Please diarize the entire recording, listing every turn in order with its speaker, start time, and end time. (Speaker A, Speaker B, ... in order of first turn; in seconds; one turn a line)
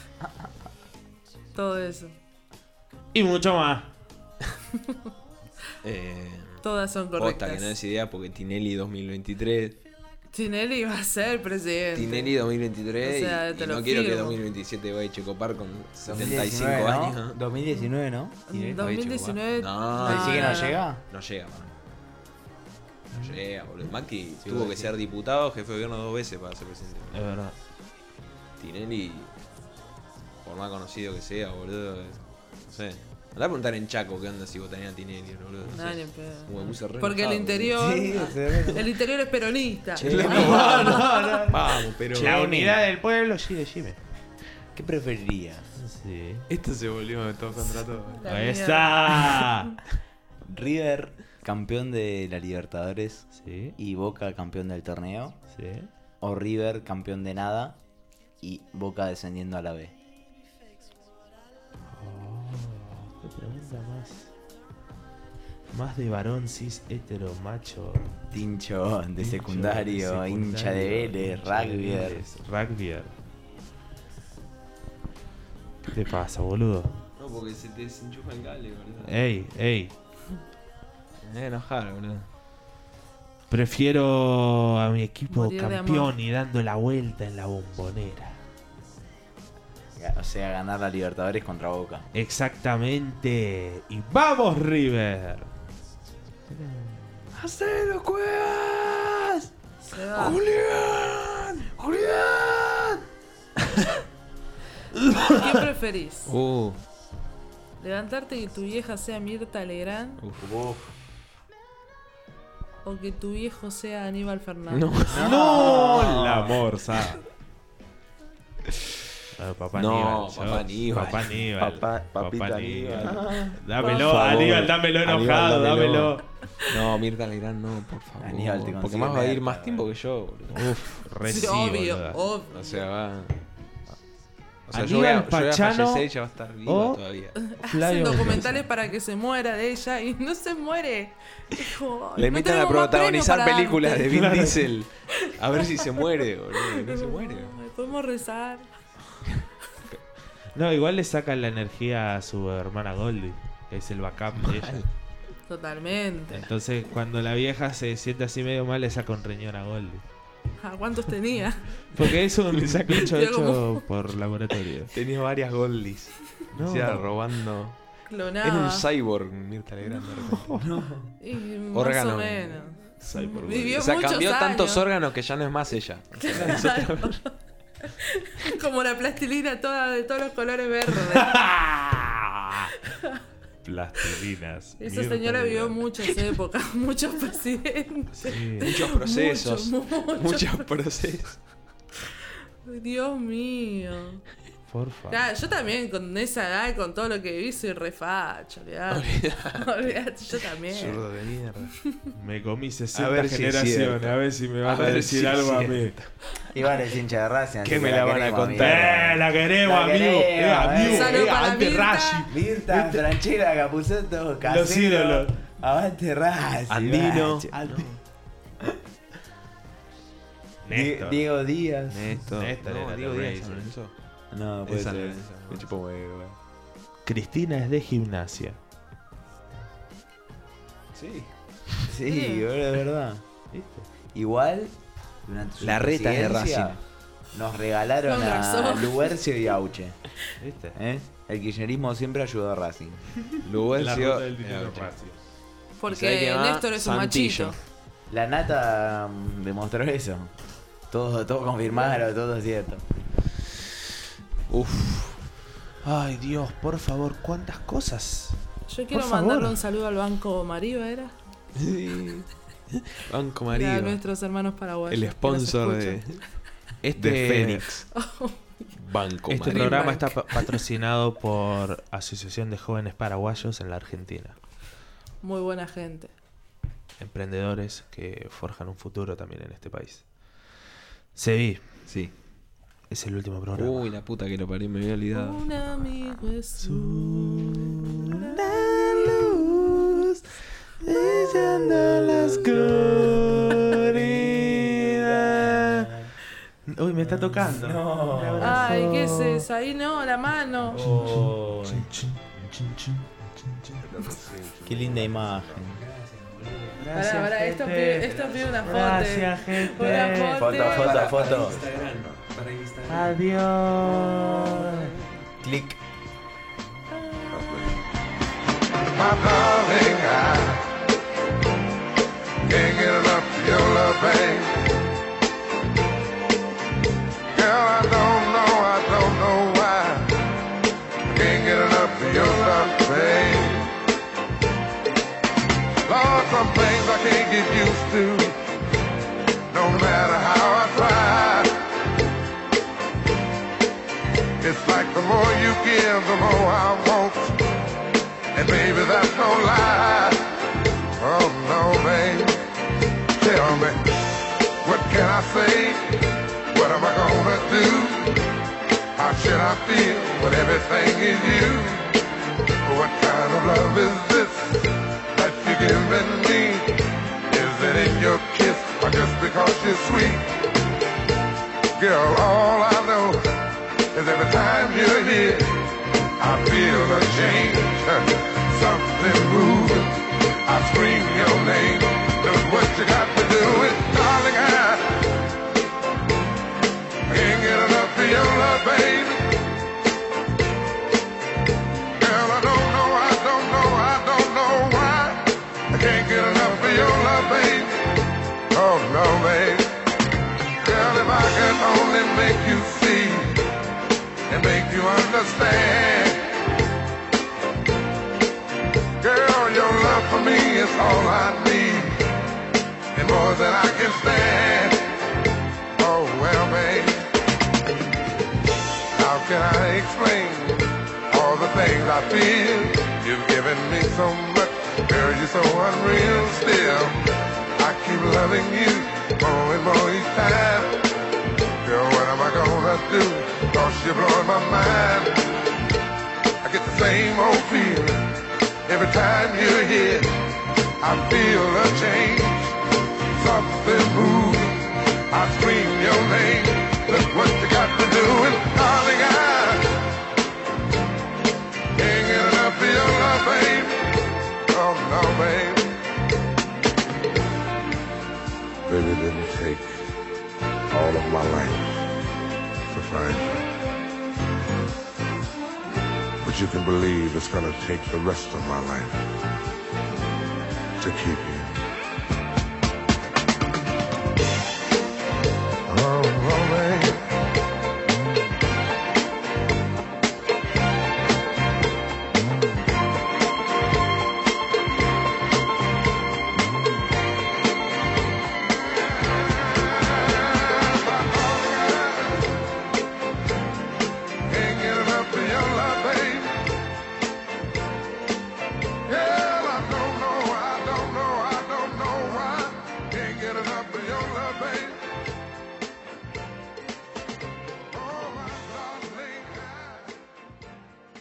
Speaker A: 1.5-2.1
Speaker B: 3.1-3.9
Speaker C: 5.8-6.6
Speaker A: 6.6-7.7
Speaker C: 7.2-9.8
Speaker A: 10.3-12.3
Speaker C: 11.9-17.4
Speaker A: 13.0-14.4
Speaker D: 16.0-18.4
Speaker A: 18.5-20.8
Speaker B: 18.5-18.9
Speaker C: 18.8-21.7
Speaker D: 20.0-21.0
Speaker C: 23.1-27.2
Speaker D: 24.4-24.9
Speaker B: 27.1-27.5
Speaker C: 28.6-29.3
Speaker C: 30.4-38.8
Speaker A: 35.7-41.4
Speaker D: 37.7-38.8
Speaker C: 39.9-42.3
Speaker D: 40.0-40.6
Speaker B: 40.3-41.6
Speaker D: 42.1-42.8
Speaker B: 42.2-44.0
Speaker D: 44.7-45.7
Speaker B: 45.8-46.5
Speaker C: 46.5-48.3
Speaker A: 47.7-49.5
Speaker B: 48.3-49.7
Speaker D: 50.5-55.4
Speaker B: 53.3-53.8
Speaker B: 55.5-55.9
Speaker D: 56.2-57.8
Speaker D: 58.4-59.9
Speaker B: 61.9-64.3
Speaker B: 65.7-68.1
Speaker D: 68.3-72.2
Speaker B: 69.2-73.1
Speaker B: 75.9-77.0
Speaker C: 77.2-79.2
Speaker B: 79.0-79.9
Speaker C: 81.2-82.3
Speaker B: 83.5-88.4
Speaker A: 85.3-86.1
Speaker D: 90.0-92.0
Speaker B: 92.1-95.5
Speaker B: 96.5-97.3
Speaker C: 97.3-99.5
Speaker A: 99.8-100.4
Speaker C: 100.1-103.0
Speaker B: 105.1-105.3
Speaker A: 105.3-106.3
Speaker C: 106.2-106.8
Speaker A: 107.8-110.2
Speaker C: 110.2-110.5
Speaker D: 110.4-110.9
Speaker A: 112.8-114.8
Speaker C: 114.7-116.6
Speaker D: 115.1-116.3
Speaker B: 115.2-117.2
Speaker B: 119.3-126.4
Speaker C: 119.7-130.8
Speaker D: 123.0-123.6
Speaker D: 128.2-129.9
Speaker B: 130.5-132.2
Speaker A: 131.2-132.8
Speaker C: 132.5-133.3
Speaker C: 134.7-137.4
Speaker B: 134.7-136.1
Speaker B: 136.7-138.6
Speaker A: 137.5-144.1
Speaker C: 142.2-147.6
Speaker B: 144.1-144.7
Speaker A: 146.7-148.7
Speaker B: 150.5-154.8
Speaker C: 154.4-154.8
Speaker A: 155.5-156.4
Speaker B: 156.3-160.0
Speaker A: 160.6-161.8
Speaker B: 161.9-164.9
Speaker C: 161.9-163.1
Speaker A: 163.0-163.8
Speaker C: 164.9-167.8
Speaker B: 166.5-167.1
Speaker A: 168.1-168.8
Speaker C: 168.4-170.6
Speaker B: 170.3-170.6
Speaker D: 170.6-171.1
Speaker A: 171.2-174.8
Speaker C: 171.7-172.7
Speaker B: 173.0-173.8
Speaker C: 173.2-177.2
Speaker A: 176.2-177.3
Speaker A: 177.8-181.4
Speaker B: 181.1-182.7
Speaker B: 183.6-185.8
Speaker A: 184.8-190.7
Speaker B: 188.2-188.7
Speaker C: 188.6-191.4
Speaker A: 192.6-194.2
Speaker B: 194.7-195.2
Speaker A: 195.1-201.0
Speaker C: 198.9-201.7
Speaker B: 202.1-205.9
Speaker C: 202.9-206.1
Speaker D: 206.5-211.3
Speaker C: 207.6-209.1
Speaker B: 208.6-213.0
Speaker A: 210.8-212.3
Speaker D: 212.3-217.5
Speaker B: 214.4-215.4
Speaker C: 216.7-217.9
Speaker B: 217.5-218.0
Speaker B: 220.6-221.2
Speaker D: 220.7-222.1
Speaker C: 221.9-223.9
Speaker B: 222.1-223.7
Speaker D: 224.3-226.3
Speaker C: 224.7-225.8
Speaker B: 227.0-228.6
Speaker C: 230.9-231.8
Speaker D: 231.8-233.2
Speaker A: 232.1-232.4
Speaker B: 233.5-233.9
Speaker D: 234.1-236.8
Speaker C: 235.6-236.8
Speaker D: 237.3-240.0
Speaker A: 238.0-239.0
Speaker B: 240.4-240.8
Speaker D: 240.7-243.1
Speaker C: 243.4-244.9
Speaker B: 243.7-245.2
Speaker A: 245.8-247.6
Speaker C: 245.9-247.6
Speaker D: 248.1-250.3
Speaker D: 250.9-252.8
Speaker C: 254.5-255.2
Speaker B: 255.8-258.4
Speaker A: 258.7-261.1
Speaker B: 258.9-259.6
Speaker C: 261.6-264.0
Speaker A: 263.5-266.2
Speaker C: 264.9-266.2
Speaker B: 266.8-267.6
Speaker C: 267.0-267.9
Speaker A: 267.9-268.7
Speaker C: 268.7-270.0
Speaker B: 269.3-274.4
Speaker A: 269.5-270.1
Speaker A: 275.2-276.1
Speaker B: 277.0-280.1
Speaker B: 281.1-281.8
Speaker C: 281.9-282.1
Speaker B: 282.9-283.9
Speaker C: 283.6-285.4
Speaker A: 285.1-288.3
Speaker B: 286.6-290.2
Speaker B: 290.8-295.9
Speaker D: 291.1-296.1
Speaker B: 296.7-299.4
Speaker D: 297.0-298.7
Speaker A: 298.4-301.0
Speaker B: 300.7-303.8
Speaker E: 303.8-304.9
Speaker D: 304.6-305.9
Speaker C: 305.8-306.6
Speaker B: 306.7-310.5
Speaker A: 306.9-311.1
Speaker C: 308.1-309.0
Speaker C: 309.8-313.1
Speaker D: 310.3-311.7
Speaker B: 312.9-314.9
Speaker C: 314.0-314.8
Speaker D: 315.4-315.8
Speaker E: 317.3-317.9
Speaker E: 318.9-320.8
Speaker E: 322.4-324.7
Speaker E: 327.3-330.2
Speaker E: 331.0-333.7
Speaker E: 335.9-338.4
Speaker E: 339.5-341.6
Speaker E: 344.4-347.4
Speaker E: 348.3-350.3
Speaker E: 351.0-352.4
Speaker E: 353.1-355.9
Speaker E: 356.5-358.2
Speaker E: 358.9-362.0
Speaker E: 362.6-370.3
Speaker E: 371.8-373.4
Speaker E: 373.9-375.7
Speaker E: 376.2-385.0
Speaker E: 387.1-389.3
Speaker E: 392.0-397.9
Speaker E: 398.5-399.8
Speaker E: 400.6-403.5
Speaker E: 404.3-406.4
Speaker E: 409.0-412.1
Speaker E: 412.9-414.9
Speaker E: 415.8-417.1
Speaker E: 418.9-427.0
Speaker E: 427.6-430.8
Speaker E: 431.6-435.3
Speaker E: 436.4-440.2
Speaker E: 440.8-442.5
Speaker E: 443.1-449.8
Speaker E: 451.8-454.0
Speaker E: 454.5-455.8
Speaker E: 458.6-459.9
Speaker E: 460.7-461.9
Speaker E: 462.7-463.4
Speaker E: 466.2-469.1
Speaker E: 470.8-471.6
Speaker E: 475.7-477.1
Speaker E: 489.5-492.2
Speaker E: 494.3-496.5
Speaker E: 498.9-504.9
Speaker E: 507.7-510.0